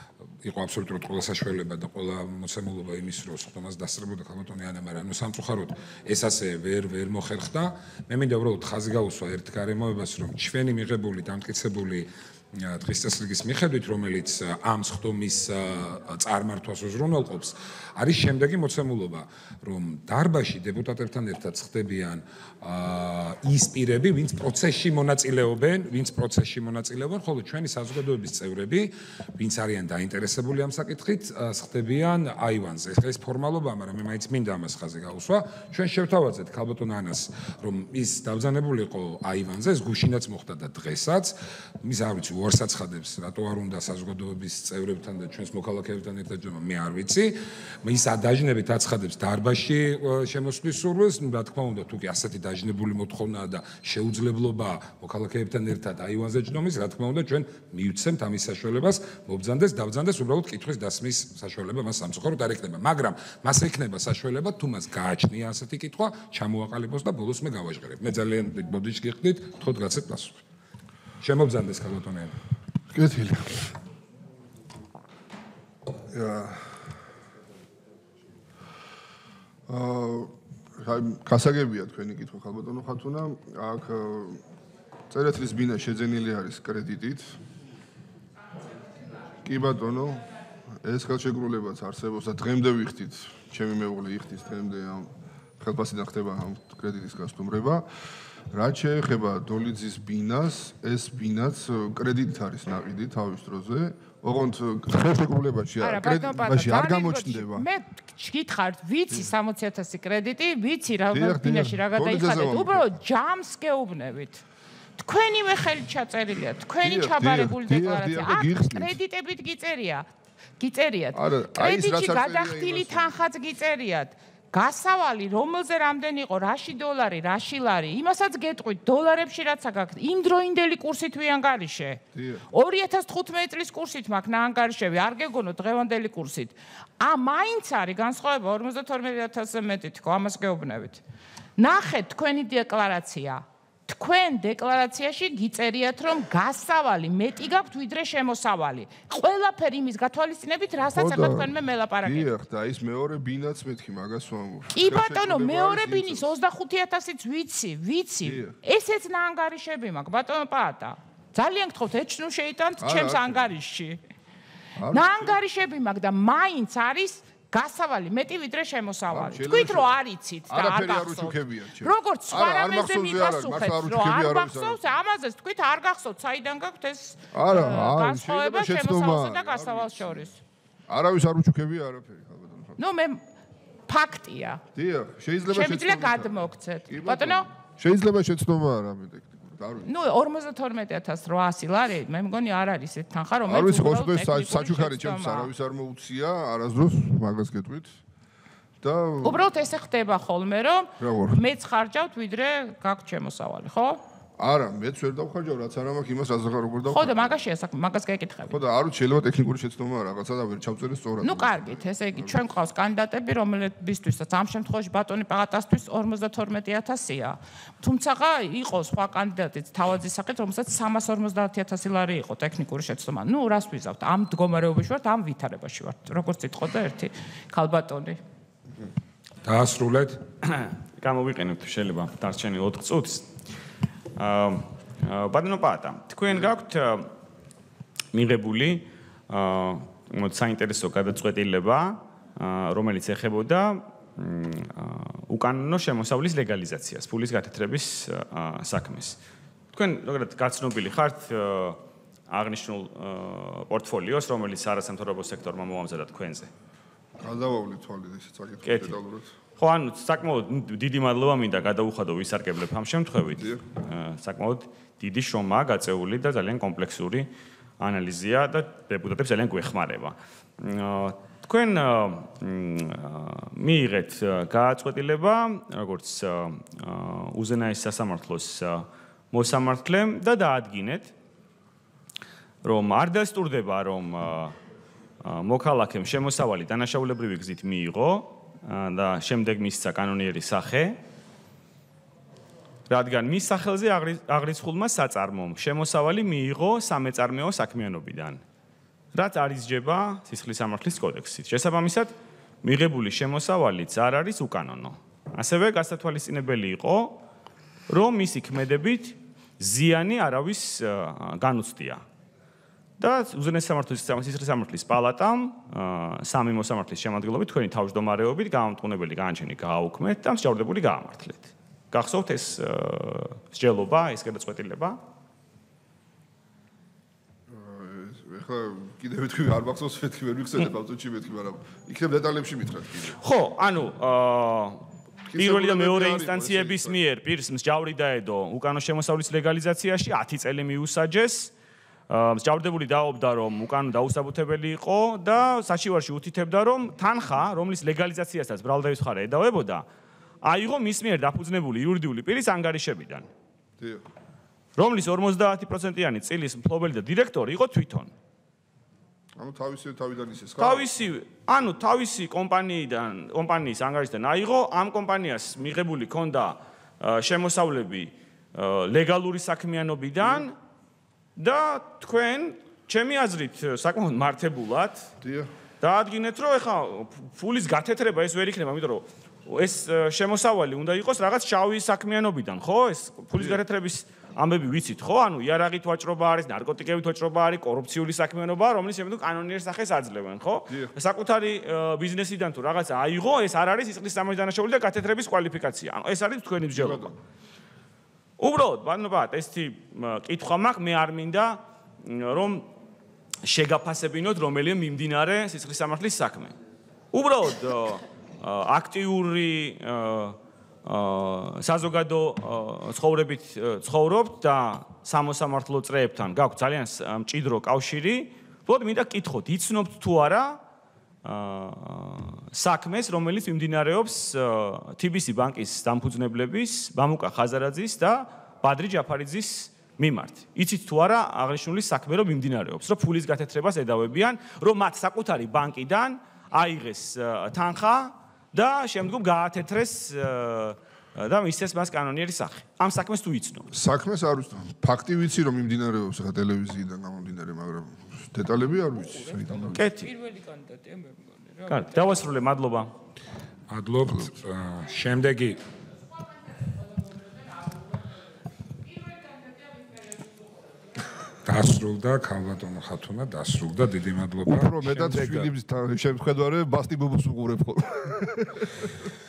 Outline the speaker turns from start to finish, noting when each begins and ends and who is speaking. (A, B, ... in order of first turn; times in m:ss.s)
0:00.4-1:10.4 A
1:11.2-1:12.4 A
1:12.9-1:13.7 B
1:16.1-1:16.8 B
1:19.7-1:24.4 B
1:25.1-1:27.4 B
1:29.4-1:30.3 B
1:30.8-1:37.9 B
1:38.5-1:47.6 B
1:45.8-1:54.4 C
1:51.1-1:52.9 B
1:55.0-2:00.1 C
1:56.8-1:58.9 B
2:00.6-2:21.0 C
2:01.1-2:03.2 B
2:12.1-2:12.4 B
2:21.6-2:32.3 C
2:30.9-2:31.5 B
2:32.0-2:36.3 B
2:34.7-2:44.0 C
2:38.2-2:38.5 B
2:42.8-2:43.5 B
2:44.8-2:45.3 B
2:44.9-3:00.4 C
2:49.1-2:49.9 B
2:50.5-2:54.8 B
2:57.3-3:00.3 B
3:00.9-3:02.8 B
3:02.8-3:03.2 C
3:03.9-3:04.6 C
3:04.7-3:06.4 B
3:05.4-3:07.5 C
3:06.9-3:09.9 B
3:09.8-3:15.5 C
3:13.5-3:18.0 B
3:18.8-3:19.4 B
3:19.2-3:24.0 C
3:21.0-3:21.4 B
3:24.4-3:27.3 B
3:26.9-3:28.6 C
3:28.5-3:32.3 B
3:31.2-3:48.2 C
3:49.4-3:50.2 A
3:50.4-3:53.3 D
3:54.2-3:57.1 D
3:58.1-4:09.2 D
4:09.7-4:16.5 D
4:17.2-4:19.3 B
4:18.6-4:19.0 D
4:19.6-4:41.1 D
4:23.3-4:23.6 B
4:42.6-4:44.5 D
4:45.2-4:51.0 D
4:52.9-4:58.4 D
4:59.1-5:02.1 D
5:02.6-5:07.2 D
5:07.9-5:12.0 D
5:13.0-5:25.0 D
5:27.5-5:33.2 B
5:33.1-5:34.8 D
5:35.3-5:37.0 B
5:35.3-5:41.5 D
5:42.1-5:49.8 D
5:50.4-5:53.3 D
5:53.8-5:54.0 B
5:54.8-5:58.1 D
5:59.4-6:00.8 B
6:00.6-6:10.6 D
6:11.4-6:15.1 D
6:15.2-6:15.5 B
6:15.8-6:37.1 D
6:23.4-6:23.6 B
6:36.7-6:37.1 B
6:38.4-6:42.7 D
6:43.4-6:46.5 D
6:47.1-7:00.6 D
7:01.2-7:23.7 D
7:23.7-7:29.8 B
7:29.1-7:32.2 C
7:29.7-7:30.1 D
7:31.7-7:32.9 D
7:33.7-7:35.6 A
7:41.4-7:45.5 A
7:44.4-7:48.9 B